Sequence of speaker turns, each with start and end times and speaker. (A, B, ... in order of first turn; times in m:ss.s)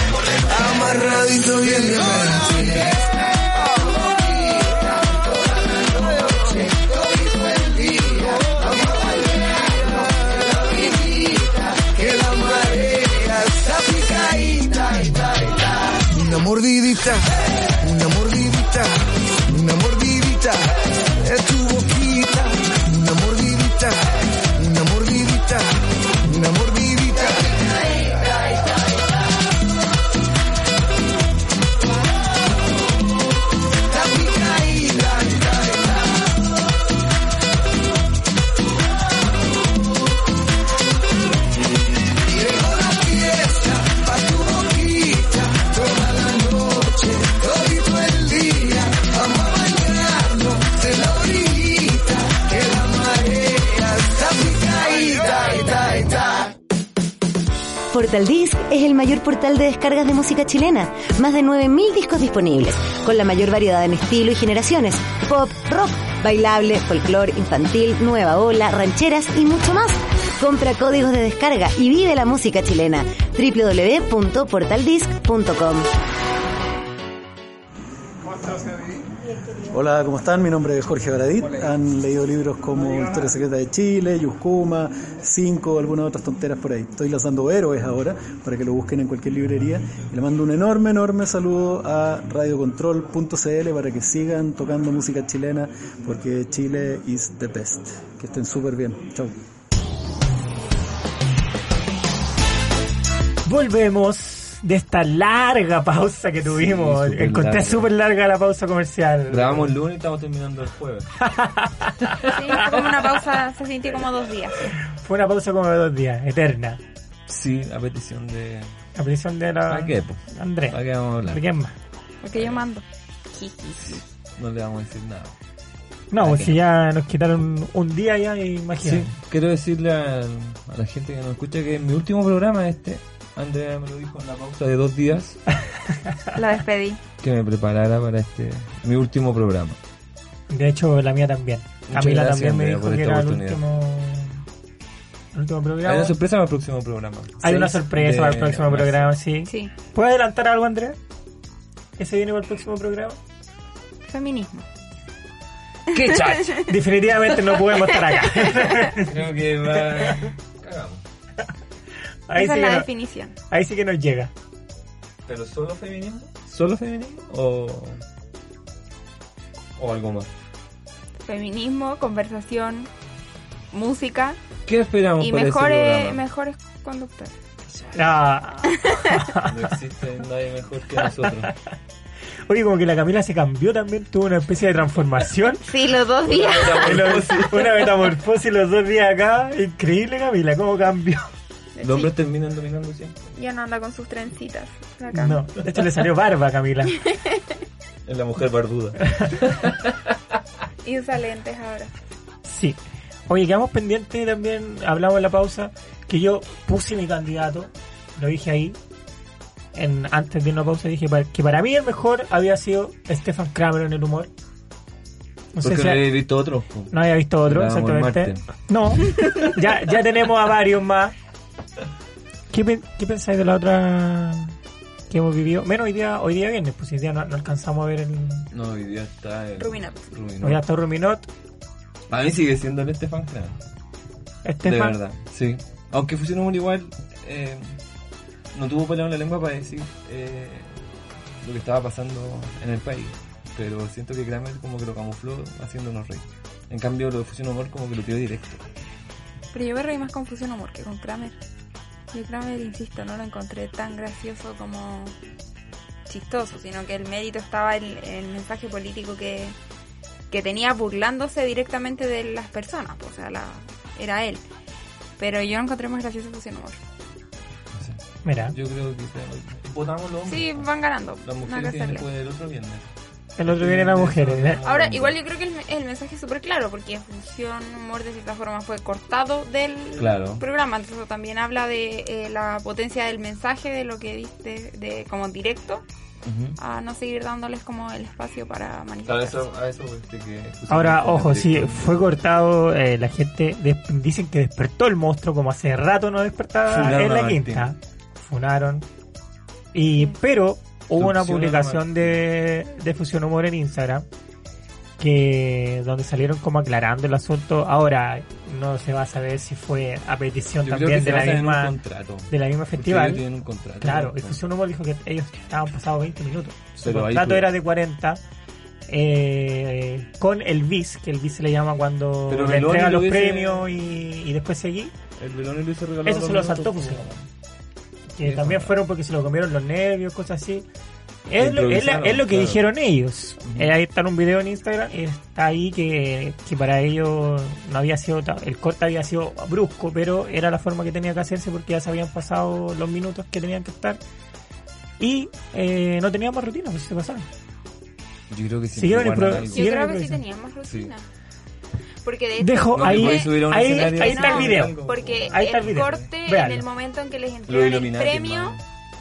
0:00.4-0:28.2 A
0:33.9-0:36.1 A
0:42.2-0:56.5 A
0:57.9-1:15.9 B
1:19.7-1:39.4 C
1:43.4-1:49.7 D
1:46.4-1:47.9 E
1:49.3-1:51.3 E
1:51.2-1:51.9 D
1:52.0-1:52.9 E
1:52.3-1:54.6 F
1:54.9-1:56.8 D
1:57.3-1:58.8 E
1:59.0-2:01.7 D
1:59.7-2:01.4 E
2:02.2-2:04.0 F
2:02.4-2:02.6 E
2:03.8-2:05.4 E
2:06.1-2:09.1 D
2:06.2-2:06.6 E
2:08.8-2:15.4 E
2:16.3-2:17.0 F
2:17.2-2:19.8 E
2:20.5-2:24.4 D
2:21.9-2:23.6 E
2:25.3-2:26.2 D
2:25.8-2:29.1 E
2:27.4-2:31.0 D
2:32.0-2:33.2 D
2:34.1-2:34.6 F
2:35.9-2:36.7 E
2:35.9-2:36.7 F
2:36.6-2:39.1 D
2:37.8-2:38.7 F
2:39.0-2:41.0 E
2:42.3-2:42.9 D
2:42.3-2:43.3 F
2:43.5-2:44.3 D
2:45.3-2:48.0 E
2:49.8-2:50.3 E
2:51.3-2:52.9 F
2:53.7-2:54.4 F
2:54.7-2:56.2 E
2:55.2-2:57.3 F
2:58.0-2:59.5 D
2:58.7-2:59.2 F
2:59.4-3:01.5 E
3:02.5-3:05.6 D
3:05.6-3:07.1 F
3:06.2-3:08.1 E
3:06.8-3:11.3 D
3:11.8-3:12.1 F
3:11.8-3:13.2 E
3:13.4-3:15.4 F
3:15.1-3:17.0 D
3:17.0-3:17.4 F
3:18.1-3:20.2 E
3:20.8-3:21.9 F
3:22.5-3:28.8 D
3:29.8-3:34.3 D
3:35.5-3:36.2 D
3:35.6-3:38.4 E
3:36.9-3:41.1 D
3:42.5-3:44.5 D
3:45.1-3:48.5 D
3:48.5-3:50.6 E
3:49.6-3:50.1 F
3:50.4-3:51.3 D
3:52.1-3:53.6 E
3:54.4-3:55.0 D
3:54.6-3:57.8 E
3:58.5-4:00.8 E
4:01.4-4:08.6 E
4:09.5-4:11.4 F
4:12.1-4:15.1 F
4:16.1-4:19.6 F
4:20.3-4:24.4 F
4:25.2-4:26.8 F
4:27.7-4:30.7 E
4:28.2-4:28.6 D
4:30.3-4:32.1 F
4:31.2-4:32.9 E
4:33.4-4:34.6 D
4:33.4-4:35.2 E
4:34.6-4:45.8 F
4:40.0-4:40.4 E
4:46.2-4:46.6 E
4:46.6-4:49.5 F
4:49.1-4:52.2 E
4:50.7-4:58.9 D
4:56.7-4:57.7 E
4:59.7-5:04.0 D
5:00.9-5:02.2 E
5:05.0-5:11.8 D
5:10.6-5:14.4 E
5:12.3-5:13.2 D
5:13.8-5:18.2 D
5:16.8-5:17.5 E
5:18.9-5:24.9 D
5:22.3-5:23.7 E
5:25.2-5:27.2 E
5:26.0-5:27.1 D
5:28.2-5:30.7 D
5:28.2-5:28.8 E
5:31.3-5:44.0 D
5:31.4-5:32.6 E
5:33.4-5:33.8 E
5:45.0-5:47.3 D
5:48.3-5:49.7 E
5:48.7-5:50.2 D
5:49.5-5:51.0 F
5:50.6-5:50.9 E
5:52.0-5:58.6 F
5:52.4-5:54.8 D
5:52.8-5:56.1 E
5:55.3-5:56.6 D
5:57.5-5:58.6 E